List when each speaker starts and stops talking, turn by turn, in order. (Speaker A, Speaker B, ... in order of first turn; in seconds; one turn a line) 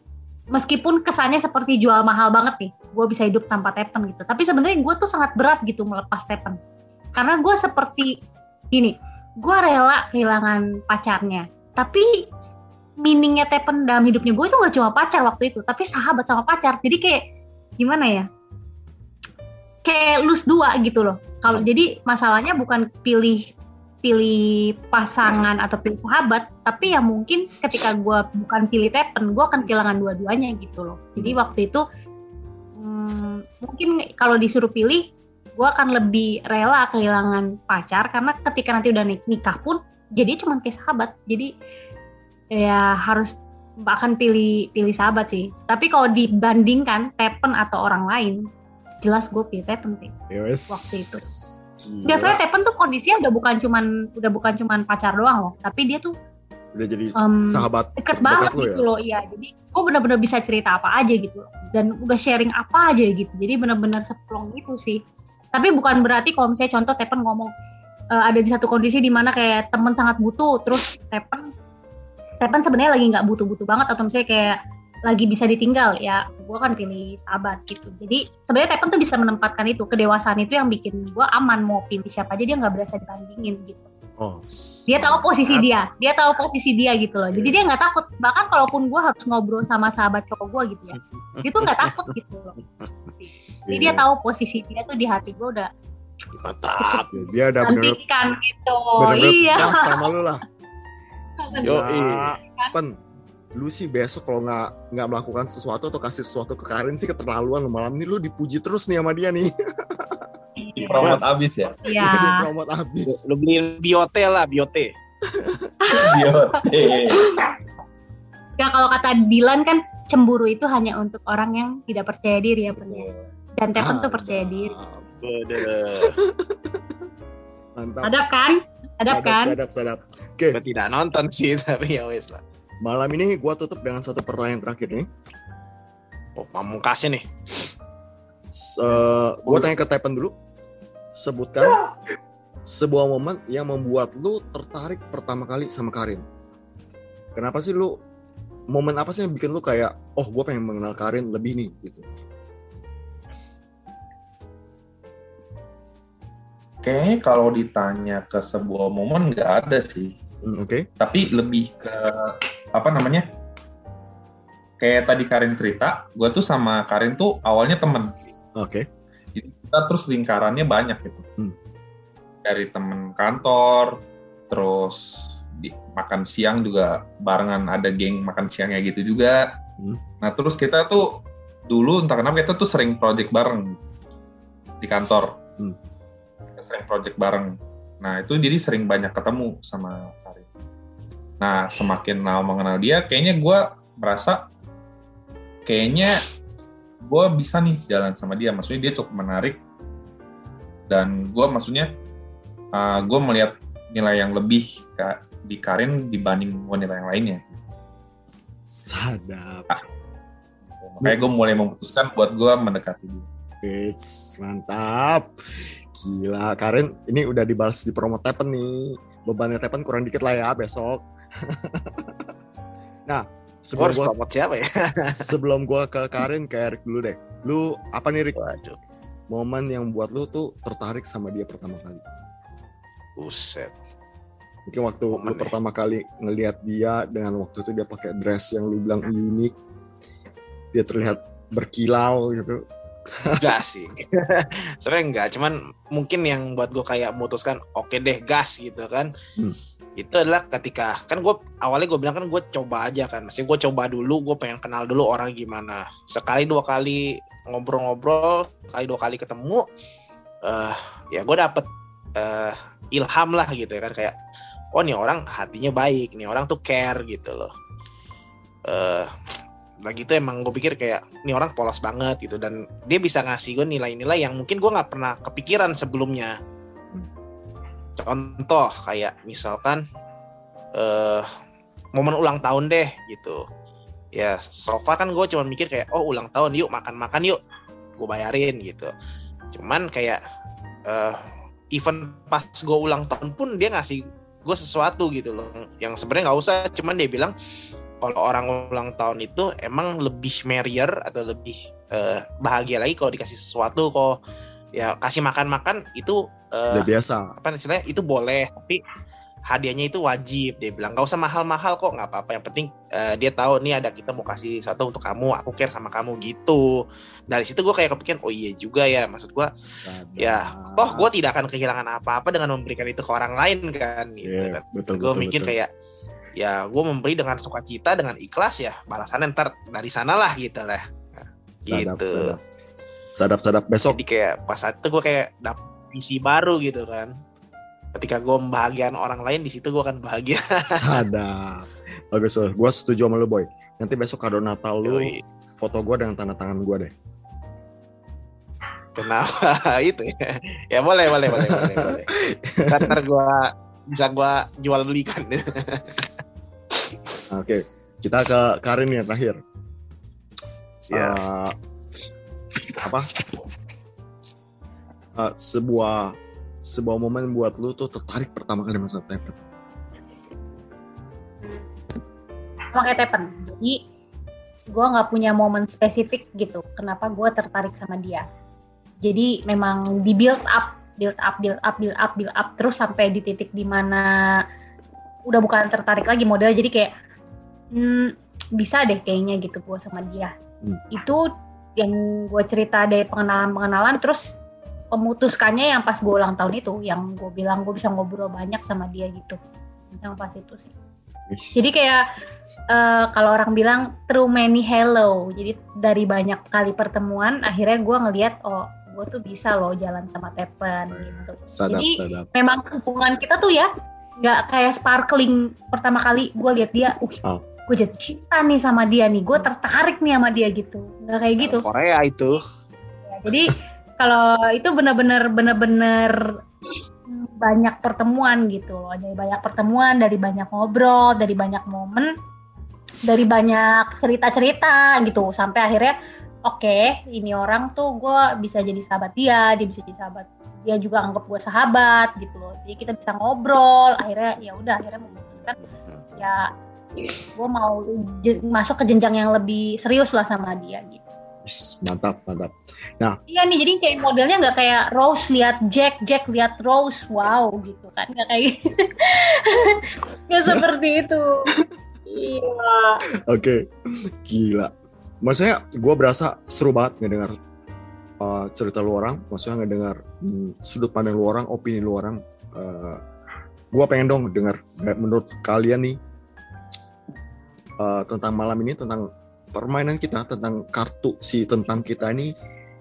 Speaker A: 0.5-6.6
Speaker A: 7.2-8.2
Speaker A: 8.7-12.3
Speaker A: 13.0-17.2
Speaker A: 17.8-18.3
Speaker A: 19.9-23.5
Speaker A: 24.0-31.8
Speaker A: 32.8-41.5
Speaker A: 42.5-48.5
Speaker A: 49.0-50.1
Speaker B: 50.3-52.4
Speaker A: 50.7-51.2
Speaker A: 52.0-56.1
Speaker B: 56.8-58.9
Speaker A: 57.2-65.0
Speaker A: 65.5-67.5
Speaker A: 68.1-71.5
Speaker A: 72.4-83.9
Speaker B: 84.2-85.7
Speaker A: 84.9-92.5
Speaker B: 87.3-87.7
Speaker C: 91.3-92.1
Speaker A: 93.2-95.7
Speaker B: 93.7-94.1
Speaker C: 96.4-97.2
Speaker A: 96.8-97.1
Speaker B: 97.1-98.0
Speaker A: 97.6-100.0
Speaker B: 99.0-100.4
Speaker A: 101.4-101.8
Speaker B: 101.5-103.0
Speaker C: 101.6-102.3
Speaker B: 103.6-110.3
Speaker A: 110.6-111.2
Speaker D: 110.8-111.8
Speaker B: 110.9-111.2
Speaker A: 111.8-112.5
Speaker B: 112.0-113.2
Speaker C: 113.1-114.9
Speaker B: 115.3-115.7
Speaker A: 115.8-117.5
Speaker D: 115.9-117.5
Speaker A: 118.6-124.8
Speaker B: 123.8-126.8
Speaker C: 125.2-126.2
Speaker B: 127.8-128.2
Speaker A: 128.0-129.6
Speaker B: 129.1-130.6
Speaker C: 130.5-132.4
Speaker B: 132.8-135.1
Speaker C: 136.4-137.7
Speaker B: 138.5-140.3
Speaker C: 139.4-139.7
Speaker B: 141.2-141.8
Speaker B: 142.7-146.2
Speaker B: 147.3-148.0
Speaker B: 148.7-152.1
Speaker D: 156.8-160.2
Speaker B: 160.4-160.9
Speaker D: 161.0-163.3
Speaker D: 164.8-168.2
Speaker B: 168.6-168.9
Speaker D: 169.3-171.3
Speaker D: 172.4-179.5
Speaker D: 180.2-183.8
Speaker D: 184.8-185.4
Speaker D: 186.6-190.5
Speaker D: 191.4-194.5
Speaker D: 195.7-196.3
Speaker D: 197.0-199.6
Speaker D: 200.9-201.9
Speaker D: 202.7-207.4
Speaker B: 208.7-209.8
Speaker D: 210.7-213.3
Speaker B: 213.6-222.3
Speaker B: 223.1-224.1
Speaker C: 223.8-225.3
Speaker B: 225.0-228.4
Speaker C: 228.4-228.8
Speaker B: 229.3-232.0
Speaker C: 233.2-233.7
Speaker B: 234.7-239.6
Speaker C: 235.1-235.6
Speaker B: 240.7-242.6
Speaker B: 243.1-243.5
Speaker C: 243.4-249.1
Speaker C: 250.0-259.7
Speaker C: 260.4-264.1
Speaker C: 264.7-267.5
Speaker C: 268.7-269.1
Speaker C: 269.8-276.4
Speaker C: 278.0-279.8
Speaker C: 280.8-281.3
Speaker C: 281.9-283.4
Speaker C: 284.1-287.4
Speaker C: 288.0-288.9
Speaker C: 289.5-290.2
Speaker C: 290.9-297.3
Speaker C: 298.0-304.2
Speaker C: 304.8-308.8
Speaker B: 306.7-307.3
Speaker C: 309.5-319.5
Speaker B: 319.8-321.1
Speaker C: 320.2-325.7
Speaker B: 324.2-325.6
Speaker C: 326.4-332.4
Speaker B: 331.7-332.4
Speaker B: 333.2-334.0
Speaker C: 333.9-337.1
Speaker C: 337.9-341.0
Speaker B: 340.6-346.9
Speaker C: 344.9-345.2
Speaker C: 348.9-352.1
Speaker B: 351.3-353.0
Speaker C: 352.7-356.1
Speaker B: 357.3-359.4
Speaker C: 360.8-361.2
Speaker B: 360.9-361.6
Speaker B: 362.8-363.1
Speaker B: 365.2-369.4
Speaker A: 371.4-371.7
Speaker A: 372.7-373.8
Speaker A: 374.7-378.3
Speaker A: 379.0-384.4
Speaker A: 385.3-386.9
Speaker A: 387.7-390.3
Speaker A: 390.9-391.2
Speaker A: 391.8-394.4
Speaker A: 394.9-399.4
Speaker A: 400.0-400.7
Speaker B: 401.3-401.7
Speaker A: 401.6-402.1
Speaker A: 402.7-421.7
Speaker B: 410.9-412.3
Speaker C: 421.4-422.4
Speaker A: 423.1-426.3
Speaker A: 427.1-432.1
Speaker A: 433.0-445.6
Speaker C: 445.6-446.2
Speaker A: 446.2-446.5
Speaker A: 447.4-451.0
Speaker B: 451.4-453.2
Speaker A: 453.3-461.5
Speaker A: 462.1-463.0
Speaker B: 463.3-463.7
Speaker B: 464.2-464.7
Speaker B: 465.2-467.4
Speaker B: 468.2-473.0
Speaker B: 473.7-476.0
Speaker B: 477.8-482.3